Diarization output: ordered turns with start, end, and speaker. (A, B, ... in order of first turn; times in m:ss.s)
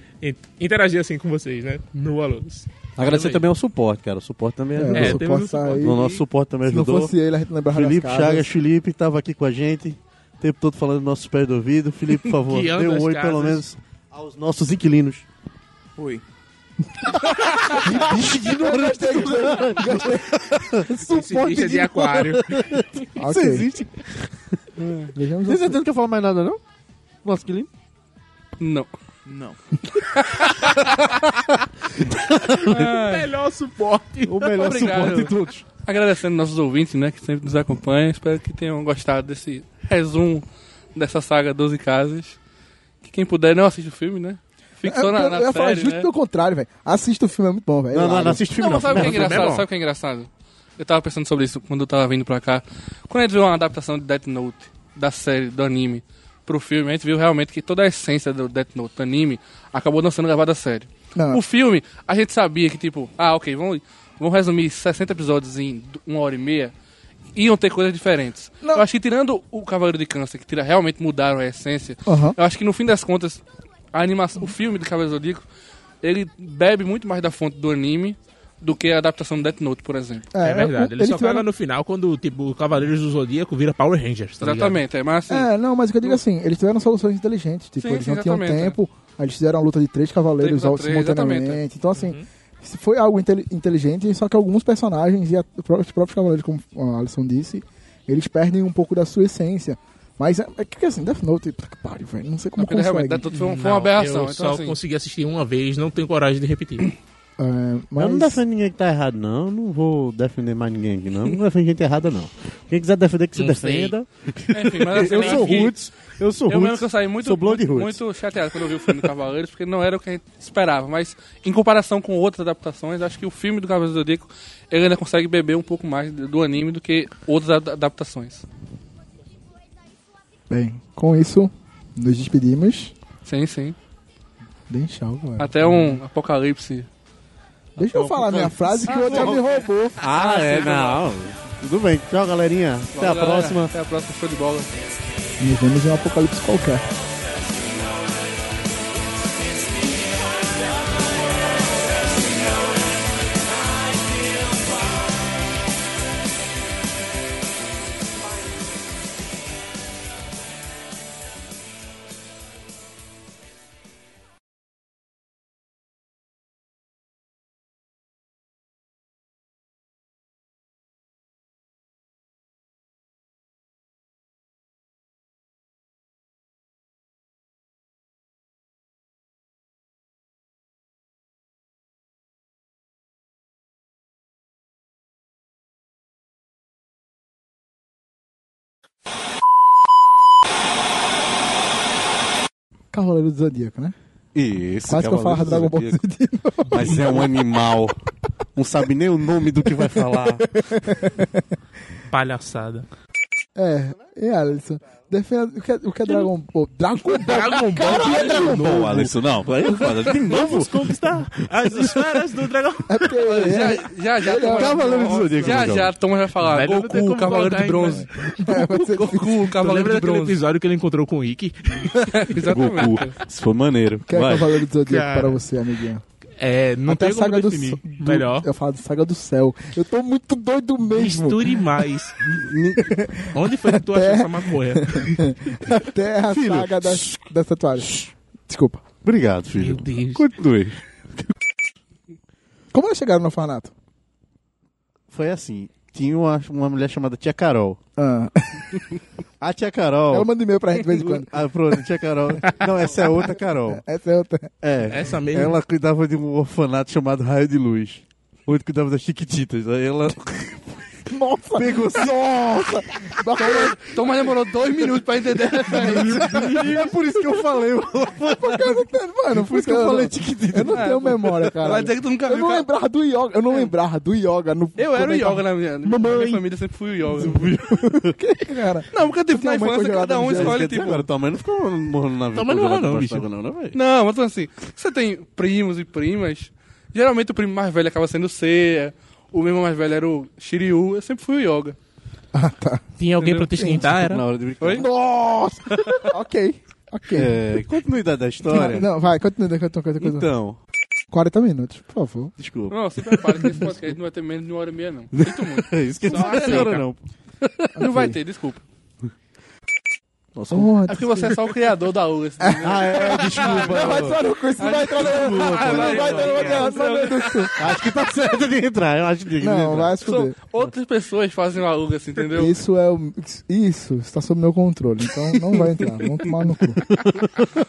0:00.2-0:03.4 A
0:03.0-0:05.2 B
0:04.8-0:06.0 C
0:04.9-0:06.2 A
0:05.8-0:07.1 B
0:06.7-0:08.5 C
0:07.7-0:15.3 B
0:12.4-0:13.6 A
0:16.0-0:16.2 A
0:17.3-0:17.8 D
0:17.7-0:24.3 B
0:17.8-0:20.4 C
0:20.9-0:23.1 A
0:23.2-0:23.7 C
0:24.8-0:25.1 D
0:25.1-0:25.8 C
0:25.5-0:26.6 B
0:27.2-0:27.7 B
0:28.6-0:28.9 D
0:29.9-0:30.8 D
0:30.7-0:33.0 B
0:32.7-0:33.3 D
0:32.8-0:34.7 A
0:34.2-0:35.7 B
0:34.6-0:42.4 D
0:43.0-0:46.1 D
0:44.8-0:48.4 C
0:47.9-0:49.5 B
0:48.6-1:06.7 D
0:48.9-0:49.6 A
1:01.2-1:01.4 C
1:07.4-1:13.4 D
1:12.1-1:12.4 C
1:13.9-1:15.4 D
1:16.0-1:20.3 D
1:20.3-1:21.5 C
1:20.4-1:24.8 A
1:24.4-1:25.5 D
1:25.3-1:43.3 C
1:27.8-1:28.8 D
1:30.4-1:31.6 D
1:32.0-1:32.2 A
1:42.6-1:44.8 D
1:43.3-1:46.9 A
1:47.4-1:48.4 C
1:48.0-1:58.0 B
1:53.4-1:53.9 A
1:54.5-1:55.8 D
1:55.0-1:55.7 A
1:56.5-2:08.4 D
2:10.5-2:12.9 C
2:13.2-2:13.8 D
2:14.7-2:16.0 C
2:15.4-2:16.9 D
2:17.8-2:19.4 B
2:17.8-2:20.0 C
2:18.9-2:19.4 D
2:20.0-2:23.7 B
2:20.0-2:21.0 D
2:22.9-2:24.7 D
2:25.4-2:26.8 C
3:12.9-3:14.0 C
3:14.3-3:16.0 B
3:14.9-3:17.3 C
3:16.7-3:18.0 B
3:18.6-3:20.6 B
3:19.7-3:21.4 C
3:22.1-3:22.9 A
3:23.6-3:29.1 C
3:27.1-3:28.9 A
3:27.9-3:31.8 B
3:29.8-3:33.2 A
3:32.9-3:34.8 C
3:33.2-3:40.4 D
3:34.4-3:35.8 A
3:34.5-3:35.9 B
3:36.4-3:38.4 A
3:38.2-3:39.4 C
3:39.2-3:42.1 A
3:42.0-3:43.2 D
3:42.3-3:44.5 B
3:44.1-3:46.0 C
3:44.9-3:45.4 A
3:46.4-3:48.5 A
3:46.9-3:51.7 C
3:50.9-3:52.2 A
3:52.3-3:52.9 B
3:52.8-3:58.8 C
3:53.3-3:55.2 A
3:56.3-3:57.2 B
3:57.8-3:58.1 B
3:59.0-4:00.8 B
3:59.6-4:00.2 A
4:02.7-4:03.7 C
4:05.1-4:07.8 B
4:08.0-4:09.0 C
4:09.4-4:10.3 B
4:10.1-4:11.8 C
4:10.9-4:13.8 B
4:12.4-4:14.5 C
4:14.6-4:21.0 B
4:14.9-4:15.6 A
4:21.1-4:23.8 C
4:21.5-4:23.6 B
4:23.4-4:26.7 D
4:25.6-4:31.0 B
4:28.2-4:36.4 C
4:30.7-4:32.7 D
4:34.8-4:37.5 D
4:37.2-4:38.2 B
4:37.2-4:40.6 C
4:38.9-4:41.1 D
4:40.2-4:43.8 B
4:42.3-4:43.3 A
4:43.7-4:51.8 D
4:52.3-4:52.8 C
4:53.0-4:54.2 A
4:53.2-4:53.8 D
4:53.5-4:53.9 C
4:53.7-4:55.0 B
4:54.6-4:54.9 D
4:54.7-4:57.4 C
4:55.7-4:56.0 B
4:57.1-4:58.9 B
4:58.5-5:00.3 C
5:00.0-5:00.6 B
5:01.1-5:02.3 C
5:02.4-5:03.9 B
5:02.7-5:06.8 D
5:05.1-5:07.0 B
5:06.1-5:06.8 A
5:07.7-5:08.6 D
5:07.8-5:08.2 C
5:10.3-5:10.7 B
5:10.5-5:11.4 C
5:10.8-5:14.0 D
5:12.4-5:17.6 C
5:12.6-5:14.2 B
5:14.6-5:17.6 D
5:14.8-5:16.7 B
5:16.0-5:16.7 A
5:17.6-5:19.9 B
5:19.4-5:20.4 C
5:20.0-5:22.6 D
5:22.3-5:26.8 C